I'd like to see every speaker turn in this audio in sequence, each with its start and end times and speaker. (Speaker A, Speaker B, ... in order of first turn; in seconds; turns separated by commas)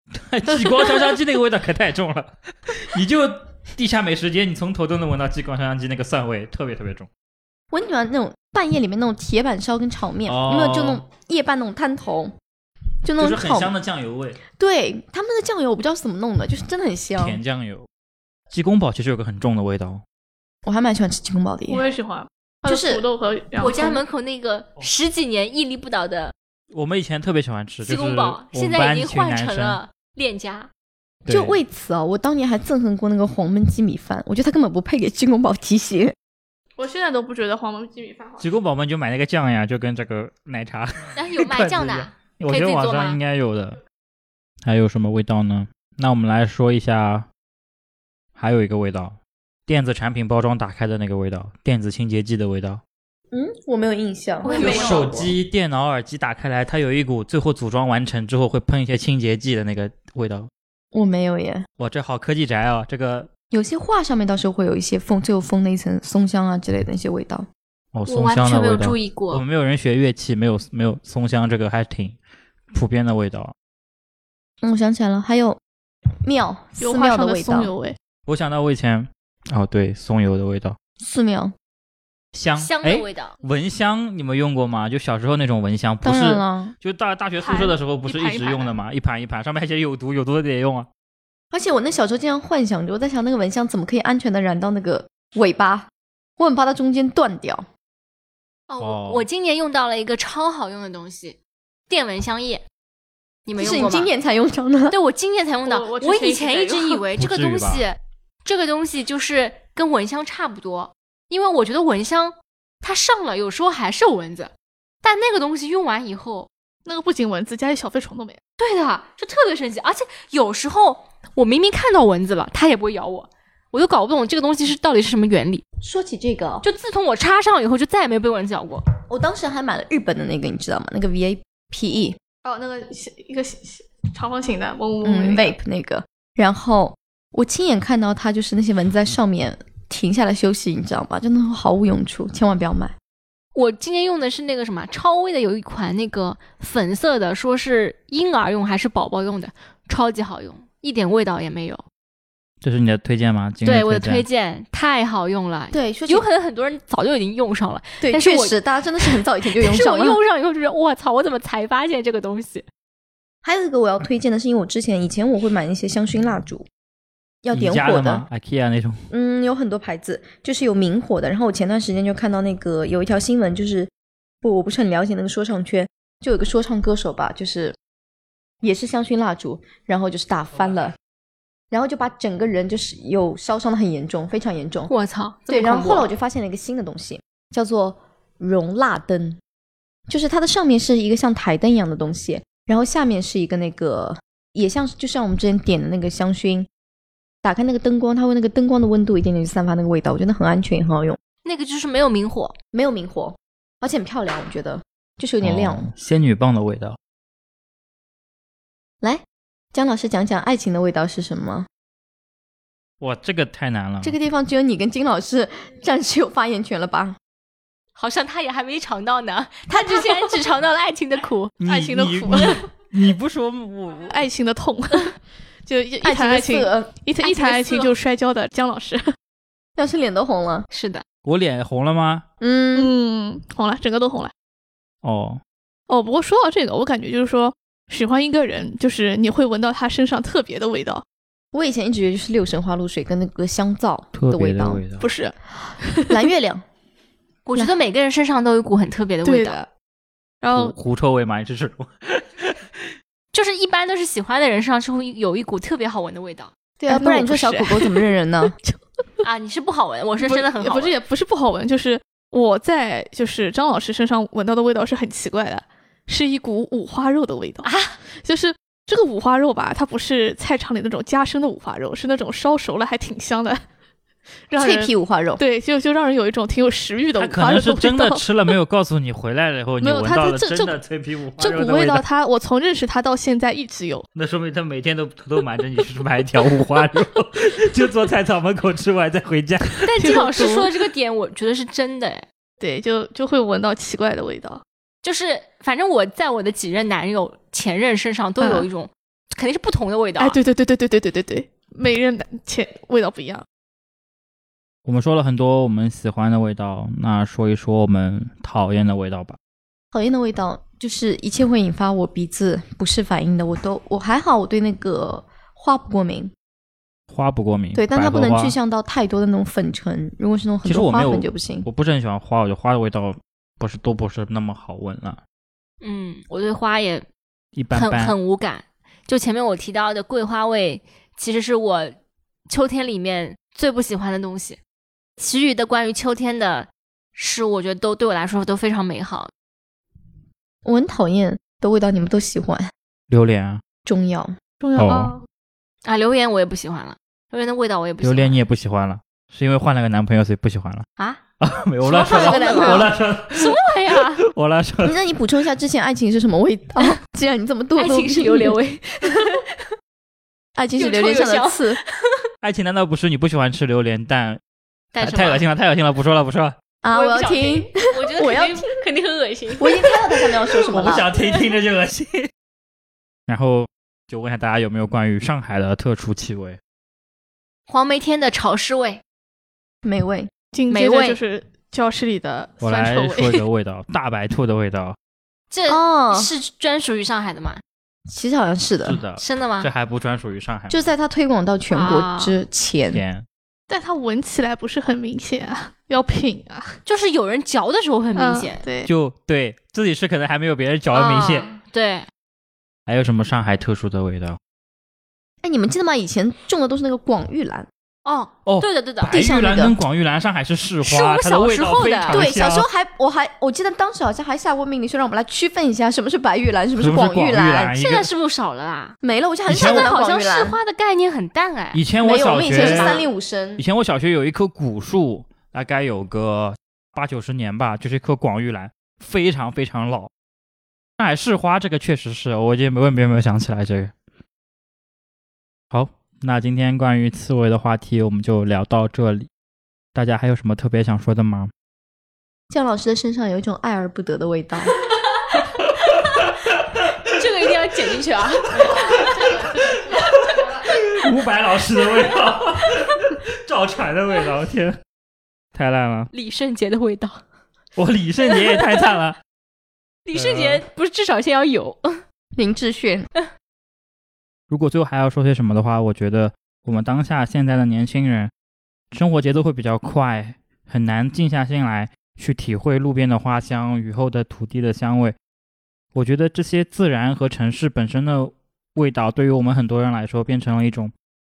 Speaker A: 0.1-7.1, Speaker B: 7.7-12.3, Speaker A: 10.2-11.0, Speaker B: 13.0-13.7, Speaker A: 13.2-14.4, Speaker B: 14.5-17.4, Speaker A: 17.2-17.9, Speaker A: 18.5-20.0, Speaker B: 20.6-21.8, Speaker C: 21.7-24.0, Speaker B: 22.6-23.0, Speaker D: 23.6-26.3, Speaker A: 26.7-29.8, Speaker D: 27.8-30.7, Speaker A: 31.2-31.6, Speaker B: 31.3-36.1, Speaker C: 36.8-38.5, Speaker A: 38.4-43.8, Speaker D: 41.1-43.2, Speaker A: 44.6-47.2, Speaker A: 48.4-52.8, Speaker B: 53.3-55.3, Speaker D: 54.4-55.1, Speaker C: 54.5-54.9, Speaker A: 54.6-60.5, Speaker B: 60.9-61.6, Speaker A: 61.8-63.3, Speaker B: 63.5-67.5, Speaker A: 67.9-72.2, Speaker D: 68.1-69.4, Speaker A: 72.7-73.5, Speaker B: 74.6-75.6, Speaker B: 76.2-77.7, Speaker C: 76.8-78.0, Speaker A: 78.3-80.8, Speaker B: 81.0-81.5, Speaker A: 82.3-90.9, Speaker D: 82.6-83.3, Speaker B: 86.0-86.7, Speaker C: 87.4-88.7, Speaker B: 91.5-97.7, Speaker D: 98.7-101.4, Speaker A: 98.8-99.3, Speaker D: 101.9-102.6, Speaker D: 103.5-104.1, Speaker B: 103.5-105.0, Speaker D: 104.9-114.5, Speaker C: 105.6-107.1, Speaker A: 107.2-107.8, Speaker D: 115.0-116.5, Speaker C: 116.8-118.4, Speaker D: 118.6-125.6, Speaker B: 125.8-126.6, Speaker D: 126.6-128.8, Speaker B: 129.1-132.2, Speaker C: 132.4-135.5, Speaker B: 135.0-142.9, Speaker D: 143.5-151.8, Speaker A: 152.6-154.2, Speaker D: 153.6-162.7, Speaker B: 155.7-156.2, Speaker B: 158.0-160.2, Speaker B: 163.4-166.7, Speaker B: 167.4-168.2, Speaker A: 167.5-169.0, Speaker B: 169.1-173.9, Speaker B: 174.4-177.8, Speaker B: 178.6-180.9, Speaker B: 181.7-184.9, Speaker D: 184.9-186.1, Speaker B: 185.5-189.4, Speaker B: 190.1-196.7, Speaker B: 197.4-201.2, Speaker D: 201.4-202.5, Speaker B: 202.7-205.9, Speaker A: 205.4-207.0, Speaker B: 209.7-211.7, Speaker A: 213.0-214.1, Speaker B: 214.0-217.2, Speaker D: 217.9-221.5, Speaker A: 221.6-224.2, Speaker C: 221.7-222.7, Speaker C: 224.1-229.1, Speaker B: 226.0-226.9, Speaker D: 227.2-227.9, Speaker B: 229.8-230.7, Speaker D: 230.7-231.0, Speaker A: 231.2-232.2, Speaker B: 232.4-232.9, Speaker C: 232.7-234.3, Speaker A: 235.0-235.4, Speaker C: 235.9-241.0, Speaker B: 241.5-244.8, Speaker A: 244.1-245.1, Speaker C: 245.0-245.3, Speaker B: 245.6-246.6, Speaker D: 247.4-249.6, Speaker C: 249.2-249.7, Speaker C: 250.4-250.7, Speaker A: 250.5-252.8, Speaker D: 253.3-256.5, Speaker B: 256.8-258.5, Speaker C: 256.9-258.8, Speaker D: 259.2-260.9, Speaker C: 260.2-273.6, Speaker D: 267.6-267.9, Speaker C: 274.5-278.2, Speaker B: 274.5-275.4, Speaker A: 277.1-282.0, Speaker C: 279.8-280.8, Speaker C: 281.4-284.1, Speaker A: 284.1-289.9, Speaker D: 289.8-292.2, Speaker C: 289.9-290.7, Speaker C: 292.6-294.6, Speaker D: 295.0-300.4, Speaker C: 298.4-298.7, Speaker C: 300.2-303.4, Speaker A: 304.8-309.4, Speaker B: 309.9-316.3, Speaker A: 317.1-318.6, Speaker B: 317.7-321.7, Speaker A: 320.6-325.2, Speaker D: 325.8-327.1, Speaker A: 327.5-328.1, Speaker D: 327.7-332.0, Speaker D: 332.5-334.6, Speaker D: 335.2-339.3, Speaker B: 340.6-342.7, Speaker A: 343.1-343.6, Speaker B: 343.8-344.3, Speaker C: 344.6-345.2, Speaker A: 344.8-345.1, Speaker D: 345.8-348.4, Speaker A: 348.0-350.9, Speaker A: 351.4-354.9, Speaker D: 351.8-354.2, Speaker B: 352.0-352.9, Speaker B: 354.8-358.6, Speaker D: 357.7-359.4, Speaker B: 360.6-361.8, Speaker D: 360.8-362.2, Speaker A: 362.4-364.4, Speaker D: 364.9-365.4, Speaker A: 365.0-366.6, Speaker B: 366.8-368.6, Speaker D: 366.9-370.3, Speaker B: 369.6-371.1, Speaker A: 370.7-372.3, Speaker A: 373.3-376.6, Speaker D: 377.7-379.0, Speaker B: 379.8-380.3, Speaker C: 380.5-383.4, Speaker D: 380.7-381.2, Speaker A: 382.6-384.9, Speaker D: 385.5-387.6, Speaker B: 385.7-386.3, Speaker B: 388.1-389.0, Speaker A: 388.8-390.8, Speaker D: 389.2-389.7, Speaker B: 390.7-393.0, Speaker D: 391.7-392.4, Speaker A: 392.9-393.2, Speaker C: 393.7-396.8, Speaker D: 396.9-398.6, Speaker C: 398.1-398.9, Speaker A: 398.8-401.5, Speaker D: 400.9-402.1, Speaker A: 402.9-404.4, Speaker B: 405.4-407.7, Speaker D: 408.0-409.1, Speaker A: 408.4-412.6, Speaker B: 409.1-409.8, Speaker D: 410.8-412.3, Speaker B: 412.1-417.8, Speaker A: 416.8-418.1, Speaker D: 417.7-419.0, Speaker B: 419.0-420.6, Speaker A: 419.5-419.9, Speaker D: 419.5-421.8, Speaker A: 421.7-423.0, Speaker B: 422.0-423.6, Speaker D: 422.5-423.1, Speaker A: 423.6-430.1, Speaker A: 431.0-433.9, Speaker A: 435.7-439.3, Speaker A: 439.9-441.5, Speaker B: 442.5-444.7, Speaker D: 445.8-446.2, Speaker D: 447.1-449.4, Speaker A: 448.5-454.8, Speaker D: 452.7-453.0, Speaker A: 455.5-456.1, Speaker D: 456.1-457.2, Speaker A: 457.8-459.2, Speaker D: 458.2-458.9, Speaker D: 460.1-462.0, Speaker A: 460.1-460.6, Speaker B: 462.4-463.1, Speaker A: 464.5-468.3, Speaker A: 468.9-475.1, Speaker A: 475.9-480.9